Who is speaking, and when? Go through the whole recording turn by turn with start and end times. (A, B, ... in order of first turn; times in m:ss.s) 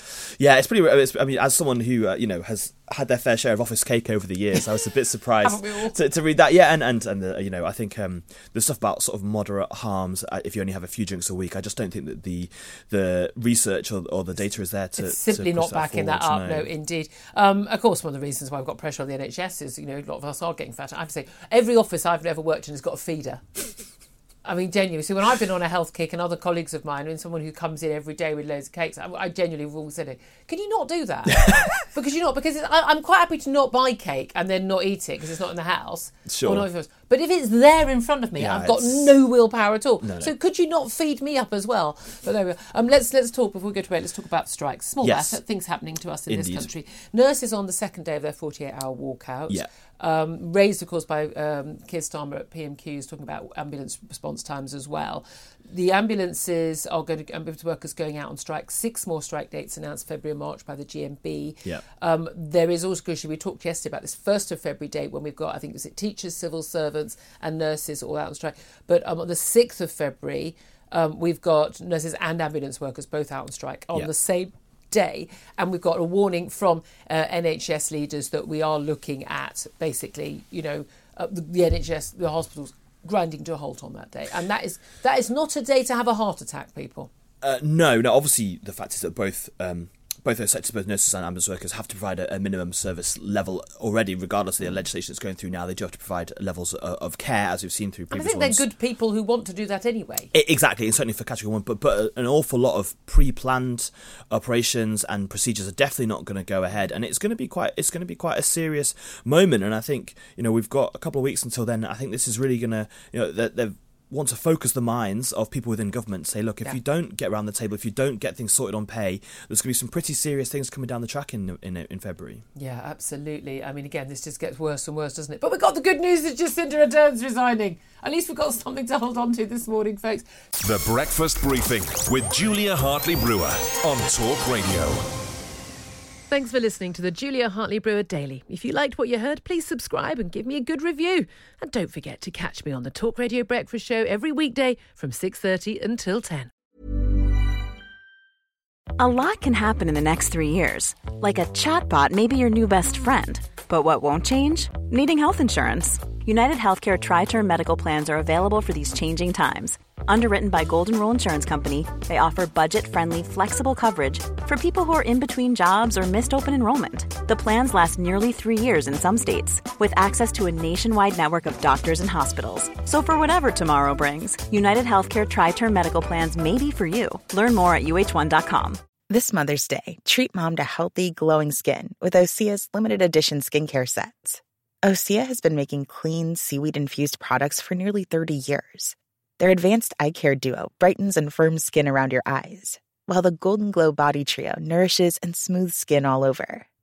0:00.4-0:16.7 A
0:05.4-0:06.0 B
0:14.9-0:23.4 B
0:24.4-1:27.1 B
0:36.3-0:36.7 A
0:38.4-0:39.2 A
0:40.0-0:40.3 A
0:45.0-0:45.4 A
0:46.3-0:46.7 A
1:27.4-1:38.6 A
1:38.1-1:40.3 B
1:40.3-2:02.4 A
2:02.6-2:10.3 B
2:10.6-2:15.0 C
2:16.3-2:26.5 B
2:29.0-2:58.8 D
2:59.1-3:16.6 E